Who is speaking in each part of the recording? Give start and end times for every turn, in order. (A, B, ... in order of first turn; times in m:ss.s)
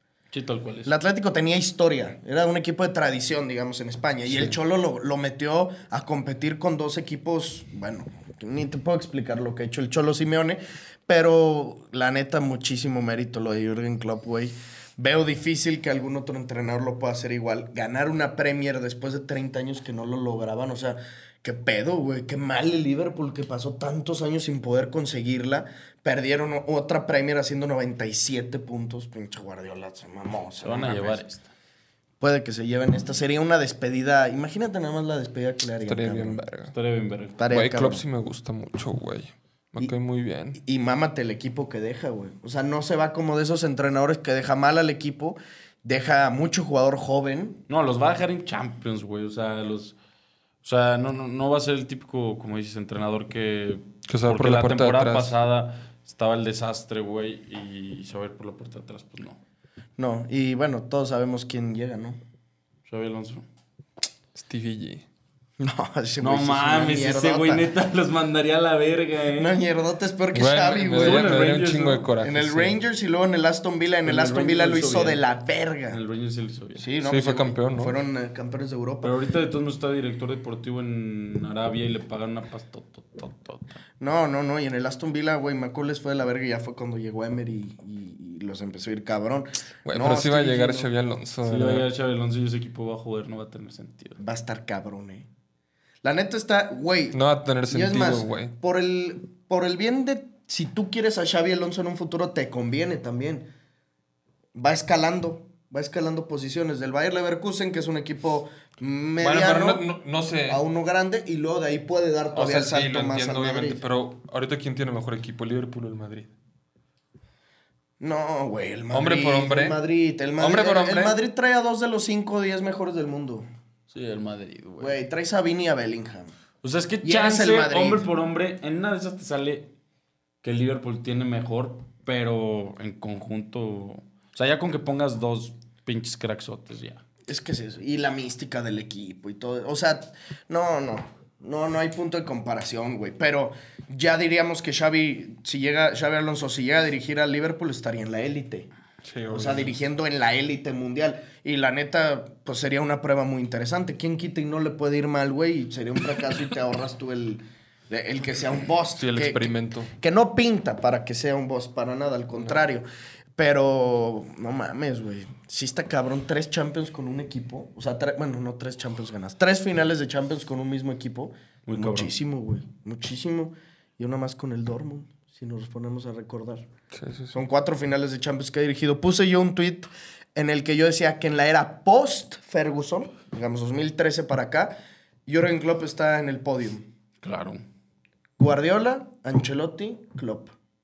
0:00.3-0:00.9 A
0:00.8-0:31.2 B
0:30.6-0:31.5 A
0:32.2-0:36.4 B
0:35.8-0:36.7 C
0:36.7-0:37.4 A
0:37.4-0:38.0 B
0:37.5-0:40.6 C
0:40.6-0:47.6 B
0:47.7-0:50.0 A
0:50.6-0:59.4 A
0:54.1-0:55.3 C
1:00.0-1:02.2 B
1:02.9-1:03.4 A
1:04.4-1:05.0 C
1:05.6-1:07.7 B
1:06.2-1:09.6 A
1:09.4-1:11.5 B
1:10.3-1:12.8 C
1:11.0-1:12.1 A
1:12.2-1:16.0 B
1:14.0-1:15.2 A
1:15.9-1:16.9 A
1:16.8-1:19.2 B
1:17.0-1:18.0 C
1:19.0-1:23.8 A
1:24.0-1:30.9 B
1:29.8-1:31.9 C
1:31.5-1:34.2 A
1:34.2-1:35.3 B
1:36.0-1:43.5 B
1:37.1-1:38.6 C
1:44.6-1:49.8 B
1:49.2-1:50.6 C
1:50.5-1:53.8 B
1:52.3-1:56.3 C
1:58.0-2:03.5 B
1:58.9-1:59.8 C
2:00.4-2:01.2 C
2:03.9-2:05.0 A
2:04.8-2:06.3 B
2:06.6-2:09.7 A
2:07.0-2:08.1 B
2:10.4-2:17.0 A
2:17.3-2:28.7 B
2:29.0-2:29.8 C
2:29.3-2:42.9 B
2:39.0-2:39.9 C
2:43.4-2:56.7 B
2:51.7-2:52.1 A
2:56.9-2:57.4 C
2:57.3-3:04.8 B
3:05.3-3:06.8 B
3:07.2-3:07.6 A
3:08.4-3:10.5 B